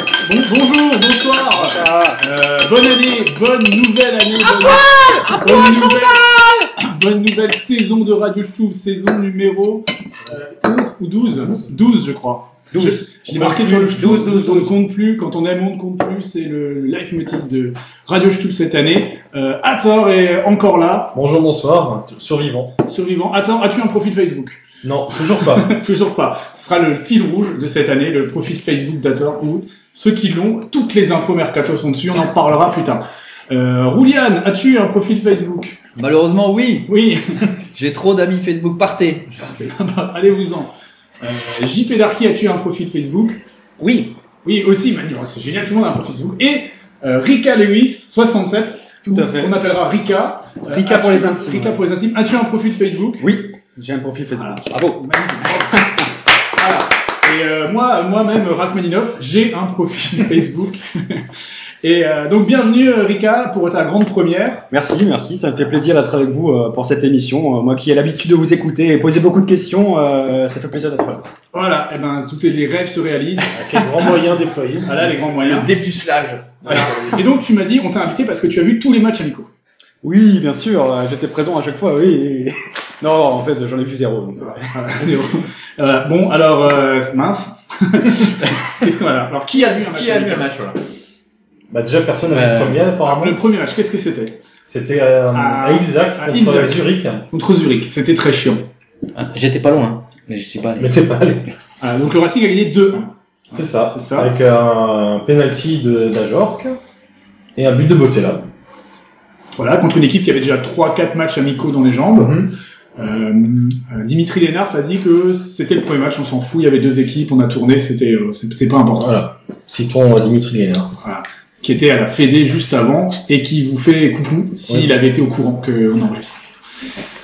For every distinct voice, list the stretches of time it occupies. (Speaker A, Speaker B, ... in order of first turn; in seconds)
Speaker A: 0.2-21.1, 22.9-24.6, 25.2-35.8, 36.9-37.5, 39.4-43.4, 44.4-53.2, 54.4-56.1, 56.6-61.3, 61.8-64.6, 71.5-74.2, 74.9-75.7, 76.7-79.5, 84.4-90.5, 93.0-94.4, 95.3-98.7, 101.8-103.1, 103.9-104.3, 109.6-112.5, 113.0-119.2, 121.0-126.3
Speaker B: 1.6-2.2, 13.6-14.7, 43.8-44.2, 92.3-92.8, 99.2-100.9
Speaker C: 13.3-13.7, 49.1-49.5, 50.7-51.9, 53.2-55.0, 55.6-56.0, 64.7-71.2, 80.0-85.1
Speaker D: 21.1-22.8, 24.8-25.8, 73.5-75.2, 91.7-93.4, 94.7-97.3, 100.8-101.5, 103.5-106.8, 107.6-108.5, 112.2-112.5, 119.0-121.0
Speaker E: 36.0-36.9, 37.7-39.3, 75.4-77.3, 89.5-90.8